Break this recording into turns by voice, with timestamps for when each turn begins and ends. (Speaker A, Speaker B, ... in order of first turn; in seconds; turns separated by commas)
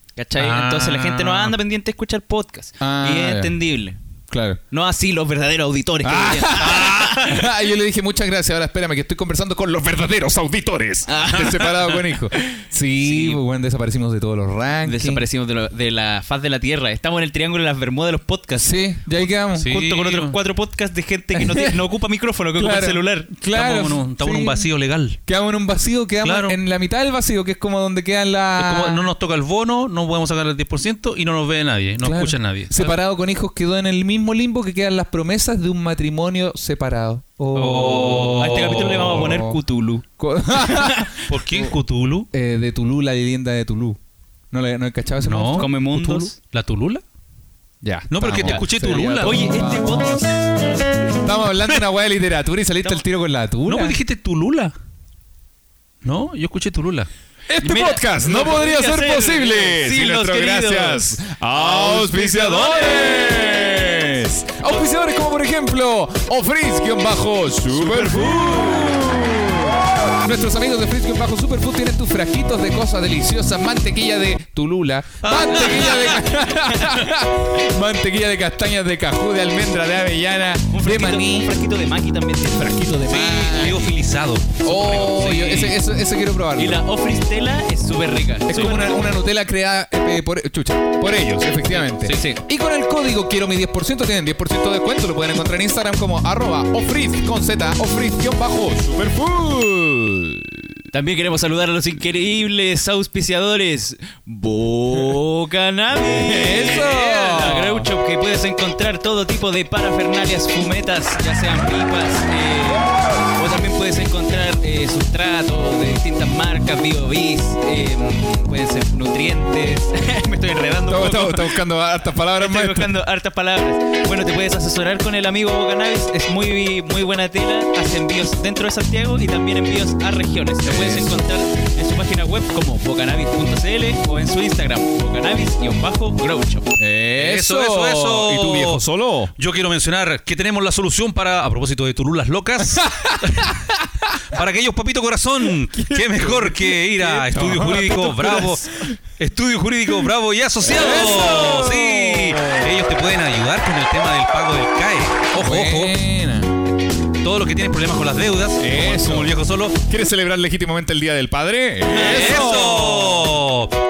Speaker A: 0.1-4.0, Speaker B: 0.3-1.6, Speaker C: 2.8-3.5, Speaker C: 4.3-4.6, Speaker A: 4.7-7.5, Speaker C: 6.0-15.2, Speaker B: 6.6-7.2, Speaker A: 11.1-13.4, Speaker A: 14.8-23.3, Speaker C: 18.6-19.8, Speaker B: 19.5-20.4, Speaker C: 21.4-21.8, Speaker C: 22.5-24.6, Speaker B: 23.5-25.2, Speaker C: 25.2-29.0, Speaker B: 26.2-26.6, Speaker B: 28.6-33.0, Speaker C: 32.0-38.3, Speaker B: 37.5-39.3, Speaker A: 38.1-41.2, Speaker C: 39.2-39.6, Speaker C: 40.2-41.7, Speaker B: 41.2-42.3, Speaker C: 42.3-44.0, Speaker C: 44.5-45.7, Speaker B: 45.2-47.0, Speaker A: 45.5-46.3, Speaker C: 47.8-50.2, Speaker B: 48.1-49.4, Speaker A: 48.4-50.6, Speaker C: 51.2-54.0, Speaker B: 53.7-54.7, Speaker B: 56.0-57.1, Speaker C: 57.5-81.5, Speaker A: 57.6-63.2, Speaker A: 67.8-68.8, Speaker B: 75.2-76.2, Speaker A: 80.7-82.9, Speaker C: 82.5-84.0, Speaker B: 83.1-85.7, Speaker C: 84.6-86.8, Speaker A: 85.1-85.7, Speaker A: 86.5-89.0, Speaker C: 88.5-100.8, Speaker A: 92.0-92.4, Speaker A: 100.9-121.6, Speaker C: 106.0-107.9, Speaker C: 120.9-122.9, Speaker A: 122.4-136.7, Speaker C: 130.6-131.2, Speaker C: 136.8-139.3, Speaker B: 137.2-138.8, Speaker B: 139.3-143.5, Speaker C: 142.7-143.9, Speaker B: 144.3-155.9, Speaker C: 145.6-149.0, Speaker C: 150.6-152.7, Speaker C: 155.3-156.5, Speaker B: 157.2-159.8, Speaker C: 158.6-163.3, Speaker A: 161.9-162.5, Speaker B: 161.9-163.8